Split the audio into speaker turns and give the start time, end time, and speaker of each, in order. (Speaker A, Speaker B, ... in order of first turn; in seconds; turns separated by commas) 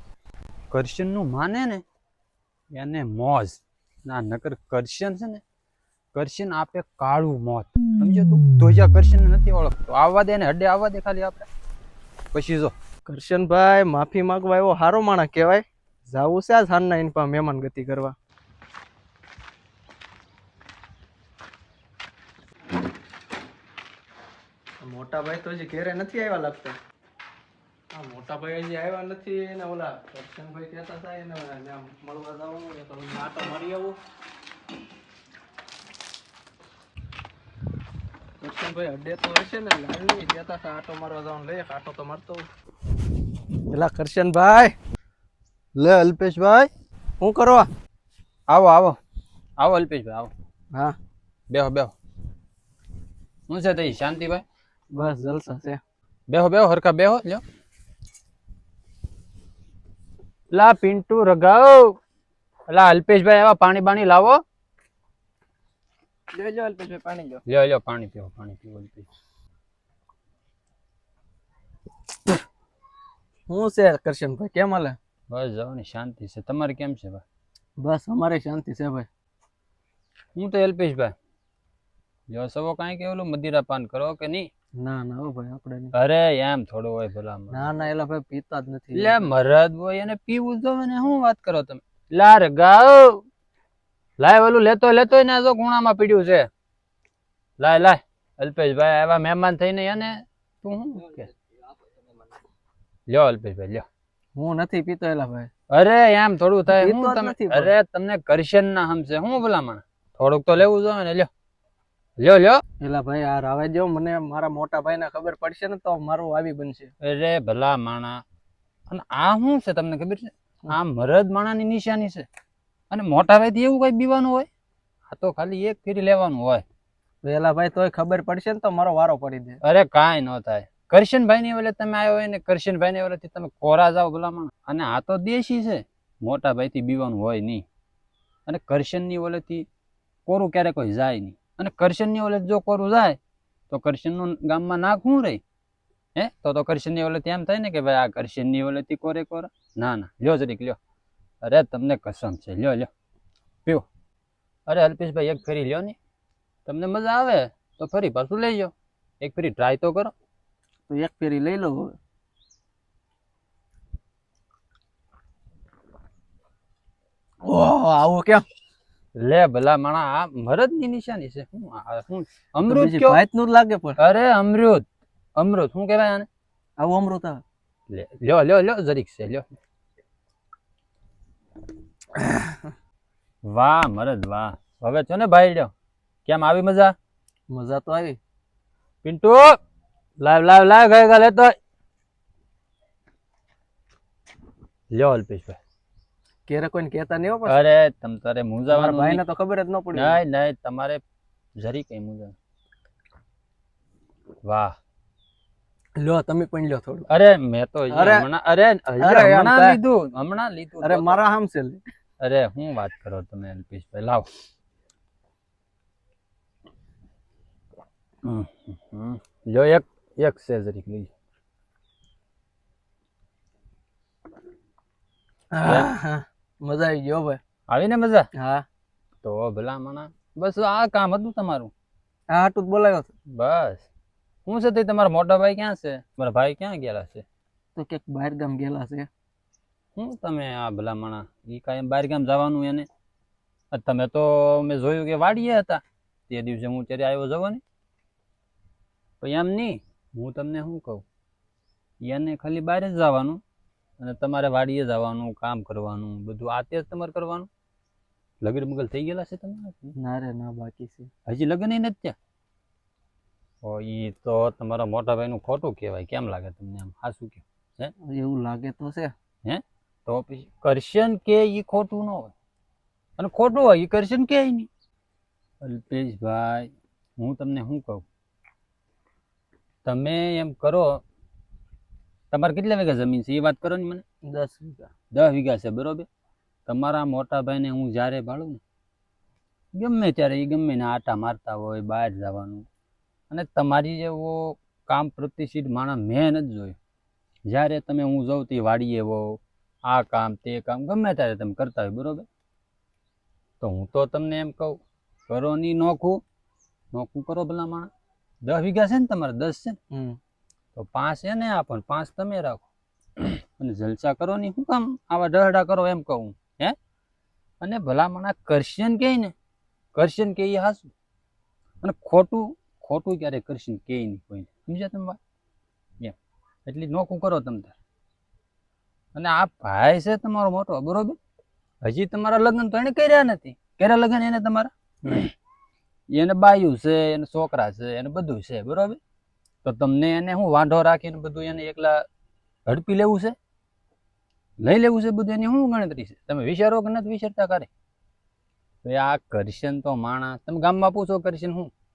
Speaker A: 0.7-1.8, Speaker A: 2.7-5.4, Speaker A: 6.1-11.5, Speaker A: 12.3-12.7, Speaker B: 13.1-18.2, Speaker B: 24.8-26.8, Speaker B: 27.9-34.0, Speaker B: 38.4-42.5, Speaker B: 43.7-44.7, Speaker A: 45.8-46.7, Speaker B: 47.2-47.7, Speaker A: 48.5-49.0, Speaker A: 49.6-50.3, Speaker A: 51.5-51.9, Speaker A: 53.5-54.4, Speaker B: 54.9-55.8, Speaker A: 56.3-57.4, Speaker A: 60.5-62.0, Speaker A: 62.7-64.4, Speaker B: 66.3-67.4, Speaker A: 67.5-69.1, Speaker B: 73.5-75.0, Speaker A: 75.3-77.2, Speaker B: 77.8-79.1, Speaker A: 80.4-81.1, Speaker A: 82.3-84.5, Speaker B: 84.8-85.9, Speaker A: 85.9-87.7, Speaker B: 87.5-89.3, Speaker A: 88.9-93.2, Speaker A: 94.2-96.5, Speaker A: 97.6-101.3, Speaker A: 103.1-103.9, Speaker B: 104.4-105.5, Speaker A: 105.7-111.3, Speaker B: 106.7-107.7, Speaker A: 112.2-112.6, Speaker B: 112.8-116.9, Speaker A: 117.0-118.2, Speaker A: 118.9-122.3, Speaker A: 122.9-124.5, Speaker A: 125.1-126.6, Speaker B: 127.2-129.6, Speaker A: 129.6-137.6, Speaker A: 138.5-139.7, Speaker A: 140.3-143.2, Speaker A: 143.7-145.4, Speaker A: 146.2-150.8, Speaker A: 151.4-152.9, Speaker A: 154.7-156.0, Speaker A: 156.7-160.1, Speaker B: 160.9-161.9, Speaker B: 167.4-168.5, Speaker A: 169.2-173.2, Speaker B: 172.7-174.0, Speaker A: 174.0-174.8, Speaker A: 175.4-176.3, Speaker B: 176.8-177.4, Speaker A: 177.9-179.5, Speaker B: 182.2-182.6, Speaker A: 183.4-185.7, Speaker A: 186.2-186.9, Speaker B: 187.5-188.2, Speaker A: 189.0-189.6, Speaker A: 190.2-191.6, Speaker A: 194.9-195.6, Speaker B: 196.5-197.6, Speaker A: 197.5-199.2, Speaker B: 198.7-200.2, Speaker A: 199.9-201.0, Speaker A: 201.6-202.3, Speaker A: 204.4-204.8, Speaker B: 206.0-207.1, Speaker A: 207.1-211.2, Speaker B: 207.9-208.3, Speaker B: 209.0-209.8, Speaker B: 210.8-211.8, Speaker A: 212.2-214.3, Speaker A: 218.2-221.1, Speaker B: 225.5-227.4, Speaker A: 227.7-228.3, Speaker B: 228.3-228.7, Speaker A: 229.2-231.7, Speaker B: 232.3-233.1, Speaker A: 233.3-233.9, Speaker A: 234.5-237.2, Speaker B: 237.8-239.1, Speaker A: 240.0-242.9, Speaker A: 243.7-247.6, Speaker A: 249.2-251.0, Speaker A: 252.0-253.4, Speaker A: 254.0-257.5, Speaker A: 258.4-259.9, Speaker B: 260.0-261.1, Speaker A: 261.3-262.2, Speaker A: 263.6-267.9, Speaker B: 268.0-269.1, Speaker A: 269.4-272.3, Speaker A: 273.2-274.7, Speaker A: 275.6-278.1, Speaker A: 279.9-281.0, Speaker A: 282.3-284.0, Speaker B: 284.2-284.9, Speaker A: 285.1-286.1, Speaker A: 286.7-288.6, Speaker A: 289.7-292.7, Speaker A: 293.3-296.8, Speaker A: 297.5-302.3, Speaker A: 303.6-306.2, Speaker A: 306.9-307.9, Speaker A: 308.4-309.8, Speaker B: 309.9-310.2, Speaker A: 310.8-312.6, Speaker A: 313.2-316.8, Speaker A: 317.6-319.3, Speaker A: 319.9-320.9, Speaker A: 321.8-325.2, Speaker A: 326.7-327.8, Speaker A: 329.1-331.2, Speaker A: 331.8-335.3, Speaker A: 336.1-339.0, Speaker A: 339.6-342.1, Speaker A: 342.7-343.4, Speaker A: 344.6-347.7, Speaker A: 348.8-351.7